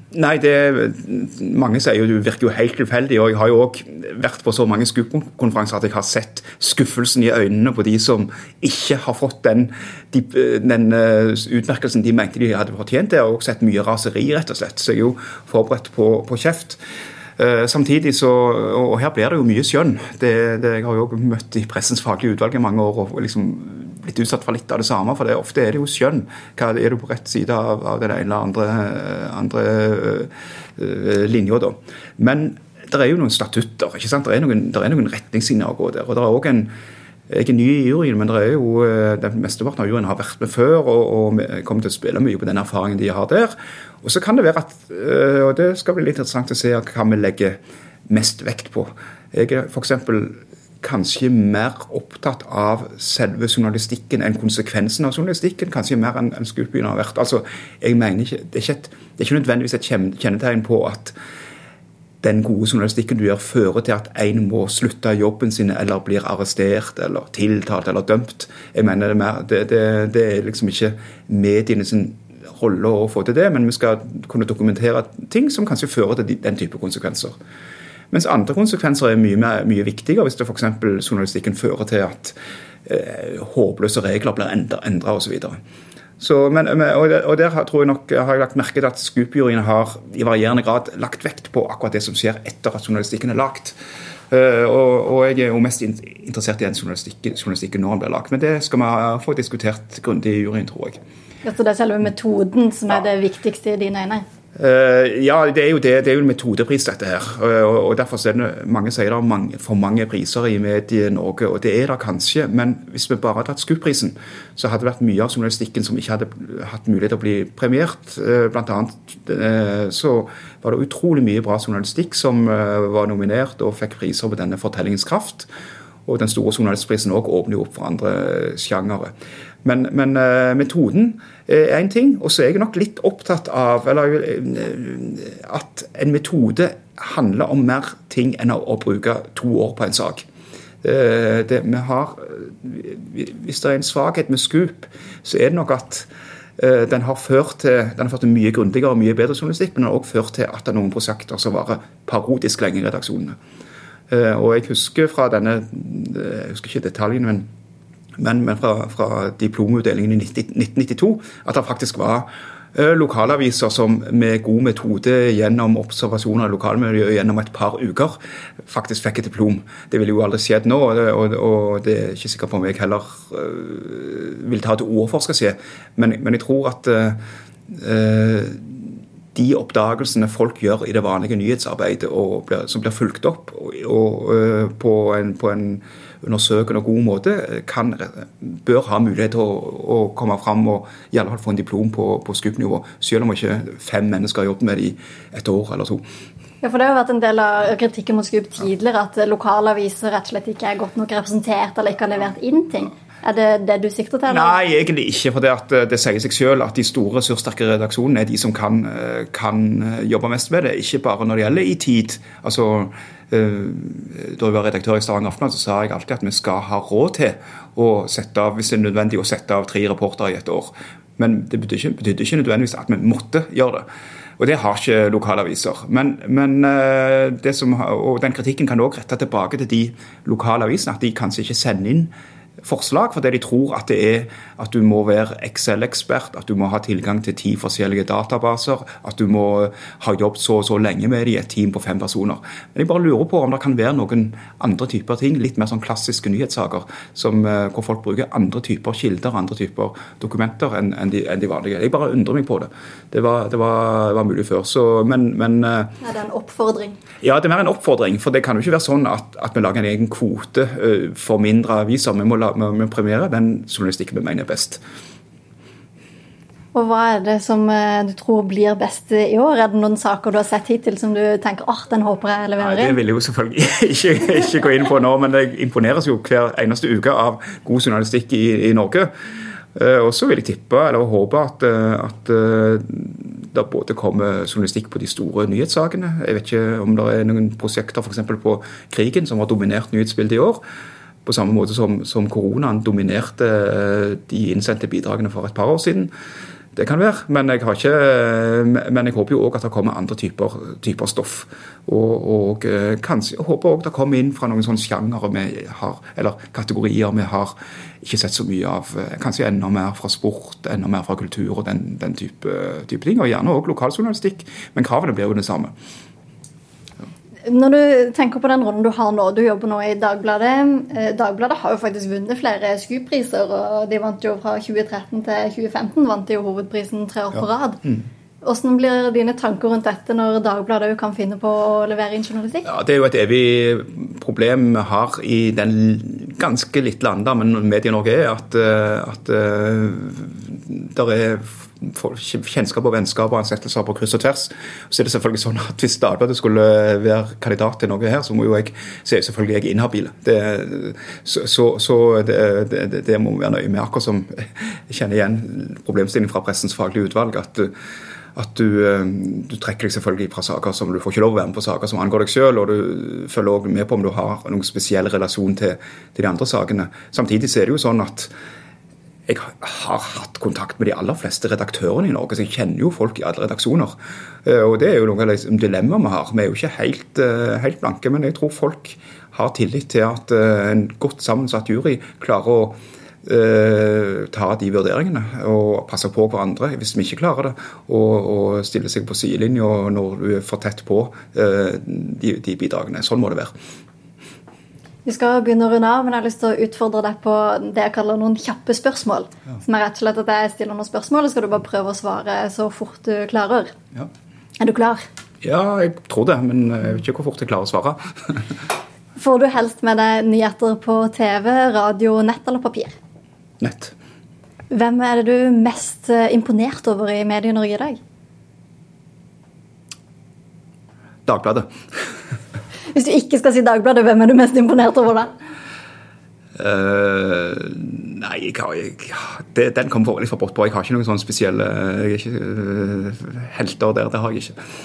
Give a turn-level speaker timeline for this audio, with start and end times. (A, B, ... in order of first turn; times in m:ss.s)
0:00.1-0:16.8 A
0:17.4-0:36.7 A
0:37.3-1:01.1 A
1:02.2-1:17.3 A
1:18.1-1:22.3 A
1:22.8-1:25.6 A
1:26.2-1:33.8 A
1:34.3-1:41.0 A
1:41.4-1:44.2 B
1:44.6-2:05.5 A
2:06.0-2:09.1 A
2:09.6-2:20.2 A
2:20.8-2:33.4 A
2:34.1-2:37.4 A
2:38.2-3:16.0 A
3:16.6-3:24.6 B
3:24.3-3:43.8 A
3:44.4-3:52.1 A
3:52.6-4:15.9 A
4:16.0-4:17.0 B
4:17.2-4:24.8 A
4:26.7-4:33.0 B
4:32.6-4:39.1 A
4:39.7-4:50.6 A
4:51.2-4:56.1 A
4:56.7-5:15.7 A
5:17.4-5:27.8 B
5:28.4-5:32.6 B
5:32.6-5:57.7 A
5:58.3-6:08.3 A
6:09.3-6:33.5 A
6:35.0-6:43.7 B
6:44.6-6:45.0 B
6:45.4-6:48.4 A
6:49.2-6:53.0 B
6:53.6-6:53.9 A
6:54.7-6:58.0 B
7:01.2-7:01.7 A
7:02.9-7:05.3 B
7:06.6-7:14.6 A